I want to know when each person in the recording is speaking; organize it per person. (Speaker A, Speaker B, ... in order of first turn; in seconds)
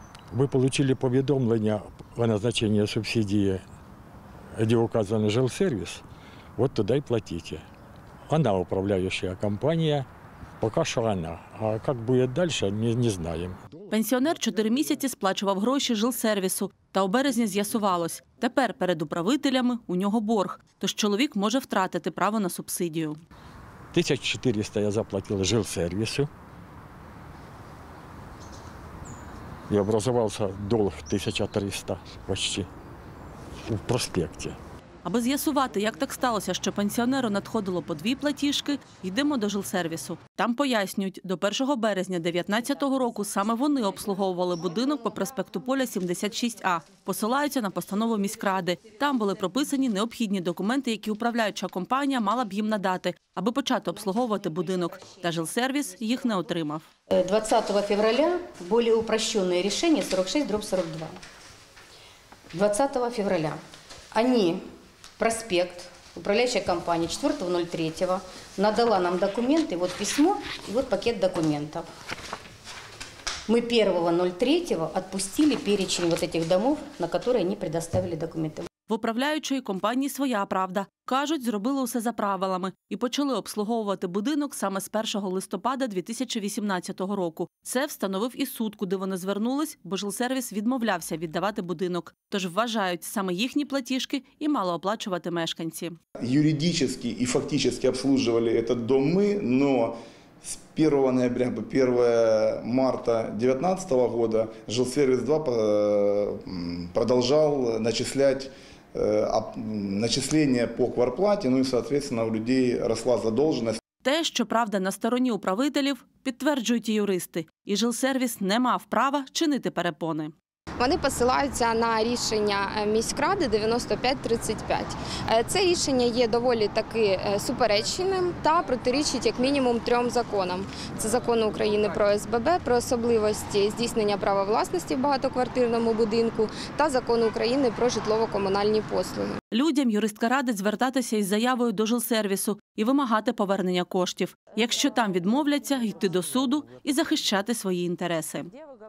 Speaker A: 0.3-3.6, 4.6-6.0, 6.6-7.7, 8.3-10.1, 10.6-13.6, 23.9-26.3, 29.7-32.7, 33.7-34.6
Speaker B: 13.9-23.2, 35.0-56.9, 78.9-96.0, 114.0-120.3, 139.5-148.5
Speaker C: 57.1-61.1, 62.5-63.6, 64.1-64.6, 65.2-71.9, 73.5-78.7
Speaker D: 96.2-113.8
Speaker E: 120.8-139.3